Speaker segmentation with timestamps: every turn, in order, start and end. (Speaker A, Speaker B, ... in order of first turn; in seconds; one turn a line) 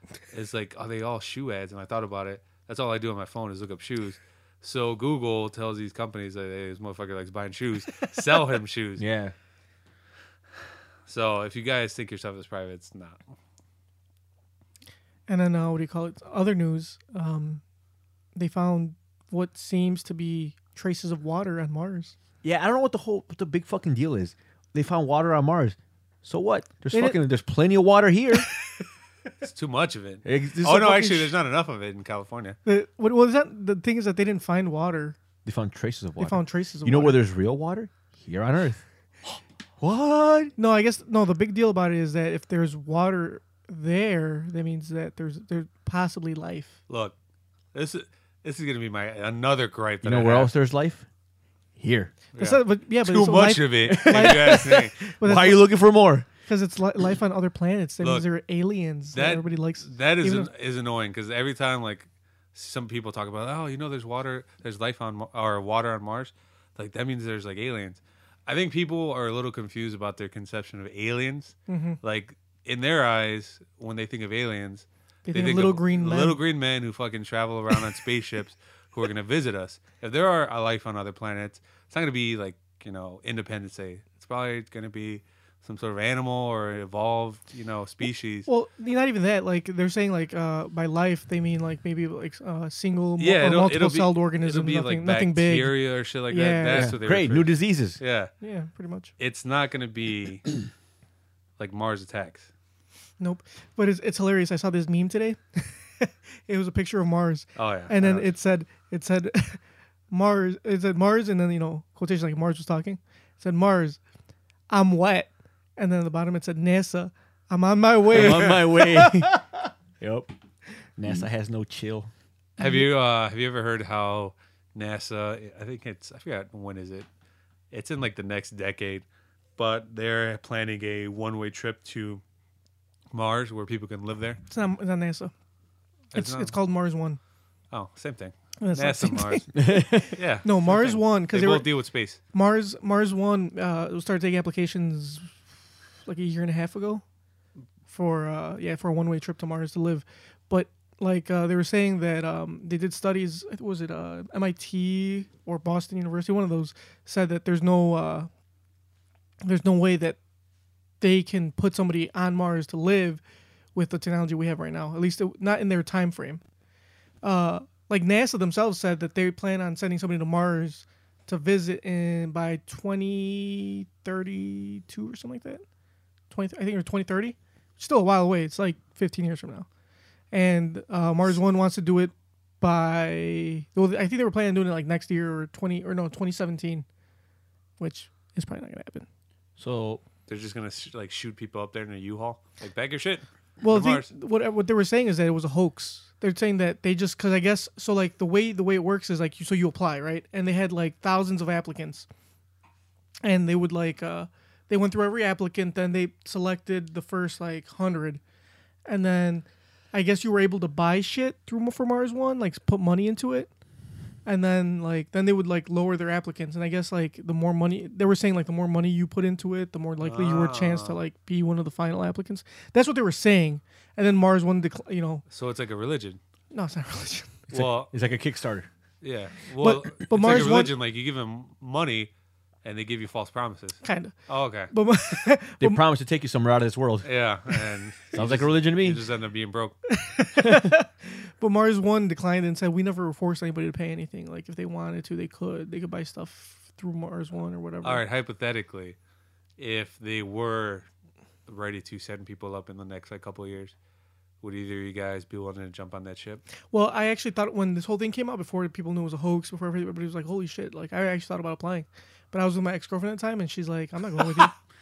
Speaker A: 0.3-9.1
Speaker B: 9.0-9.3
Speaker A: 11.1-13.2
Speaker C: 15.3-17.6
Speaker C: 18.4-22.2
Speaker B: 22.4-28.5
Speaker C: 26.9-27.2
Speaker A: 29.4-32.6
Speaker B: 30.2-31.3
Speaker C: 32.7-35.2
Speaker B: 35.5-40.5
Speaker C: 36.2-37.2
Speaker C: 40.6-46.8
Speaker A: 46.9-47.1
Speaker A: 47.7-50.5
Speaker B: 50.0-51.1
Speaker B: 51.8-52.1
Speaker A: 52.4-55.0
Speaker C: 52.4-55.7
Speaker B: 53.9-56.3
Speaker C: 56.5-60.5
Speaker A: 59.1-88.5
Speaker C: 71.7-72.0
Speaker C: 75.3-76.4
Speaker C: 88.5-95.8
Speaker A: 93.2-98.3
Speaker C: 96.3-96.9
Speaker B: 96.7-98.0
Speaker C: 98.4-99.1
Speaker A: 99.2-100.5
Speaker A: 101.6-102.5
Speaker C: 103.2-114.0
Speaker A: 107.6-108.3
Speaker C: 114.7-119.3
Speaker B: 118.1-120.3
Speaker A: 118.1-118.6
Speaker B: 121.0-122.1
Speaker A: 122.6-127.1
Speaker C: 122.6-122.8
Speaker A: 127.7-129.1
Speaker A: 129.6-132.2
Speaker A: 133.1-134.4
Speaker C: 134.5-135.3
Speaker A: 136.1-136.6
Speaker C: 136.1-137.2
Speaker A: 137.7-139.6
Speaker C: 138.6-141.7
Speaker B: 139.6-140.1
Speaker A: 140.1-142.2
Speaker C: 142.3-145.3
Speaker C: 146.1-147.0
Speaker C: 147.9-158.3
Speaker C: 159.4-160.2
Speaker C: 161.0-163.2
Speaker C: 163.8-166.4
Speaker C: 167.2-175.6
Speaker C: 176.3-179.7
Speaker C: 180.3-186.9
Speaker C: 187.8-189.1
Speaker B: 189.6-190.0
Speaker A: 190.3-194.1
Speaker C: 193.6-202.1
Speaker C: 203.2-208.2
Speaker C: 208.9-213.5
Speaker C: 214.3-225.2
Speaker A: 220.0-221.0
Speaker A: 225.3-226.2
Speaker C: 226.5-227.5
Speaker A: 227.5-227.9
Speaker B: 227.5-228.7
Speaker A: 229.0-232.1
Speaker C: 229.6-230.7
Speaker A: 232.6-234.7
Speaker C: 233.8-234.1
Speaker C: 234.7-235.8
Speaker B: 235.6-237.1
Speaker A: 237.0-239.8
Speaker B: 238.1-239.0
Speaker C: 239.9-248.0
Speaker B: 240.4-240.7
Speaker A: 247.8-249.0
Speaker A: 249.6-250.9
Speaker A: 251.5-253.7
Speaker A: 254.4-256.4
Speaker C: 256.7-264.5
Speaker B: 264.2-264.5